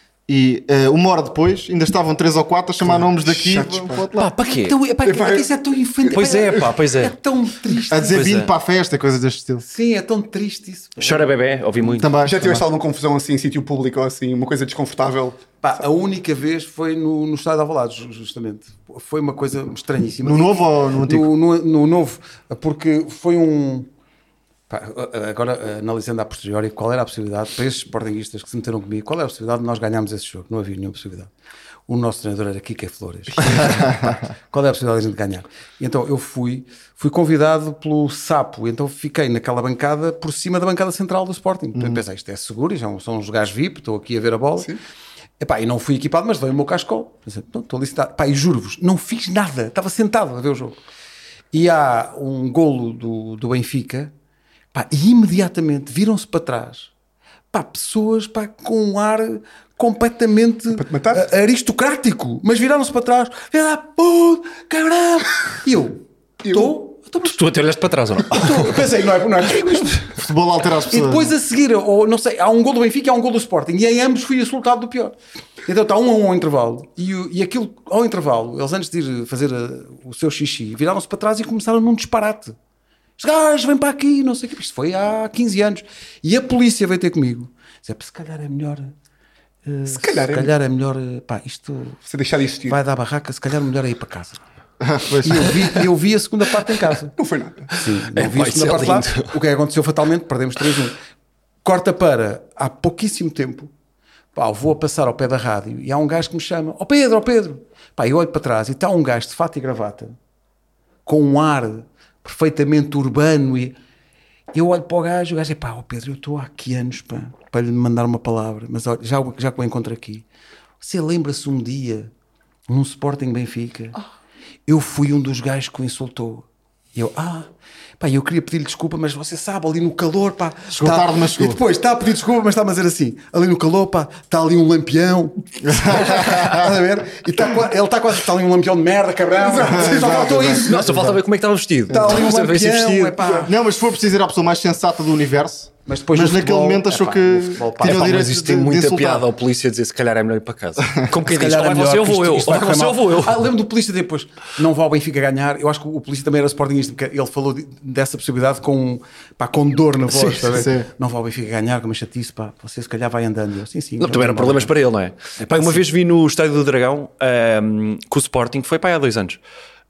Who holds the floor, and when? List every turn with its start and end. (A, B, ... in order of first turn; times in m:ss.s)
0:00.3-0:04.3 A
0:02.8-0:04.1 B
0:04.1-0:04.8 C
0:04.4-0:08.3 D
0:05.0-0:05.5 B
0:06.0-0:06.8 B
0:06.1-0:07.2 C
0:07.9-0:09.6 A
0:07.9-0:08.5 C
0:09.6-0:11.3 D
0:11.0-0:12.2 C
0:12.0-0:12.6 A
0:12.2-0:15.4 B
0:15.6-0:23.9 D
0:20.2-0:21.3 A
0:24.7-0:31.3 D
0:31.9-0:44.7 D
0:41.8-0:42.0 A
0:45.4-0:50.8 D
0:51.5-0:54.1 D
0:54.7-0:56.9 D
0:57.5-1:07.4 D
1:00.7-1:01.3 B
1:06.4-1:06.8 B
1:07.2-1:08.8 C
1:08.3-1:10.2 D
1:10.1-1:11.3 A
1:10.9-1:22.6 D
1:23.2-1:29.0 D
1:29.6-1:32.0 D
1:29.9-1:30.5 B
1:32.1-1:32.8 B
1:32.7-1:34.4 D
1:34.8-1:35.5 A
1:35.1-1:37.1 D
1:37.2-1:37.7 B
1:37.7-1:41.0 D
1:37.8-1:39.3 C
1:41.6-1:43.7 D
1:44.4-1:50.2 D
1:51.1-1:53.8 D
1:54.5-2:00.3 D
2:00.8-2:02.1 D
2:02.7-2:04.0 D
2:04.7-2:21.2 D
2:10.7-2:11.6 A
2:15.6-2:16.7 A
2:19.4-2:20.6 B
2:19.6-2:21.2 A
2:20.5-2:23.4 C
2:21.9-2:23.5 D
2:23.4-2:29.3 A
2:25.9-2:28.2 D
2:27.8-2:33.5 C
2:31.2-2:44.7 D
2:40.1-2:40.7 C
2:40.5-2:40.9 A
2:44.0-2:49.4 C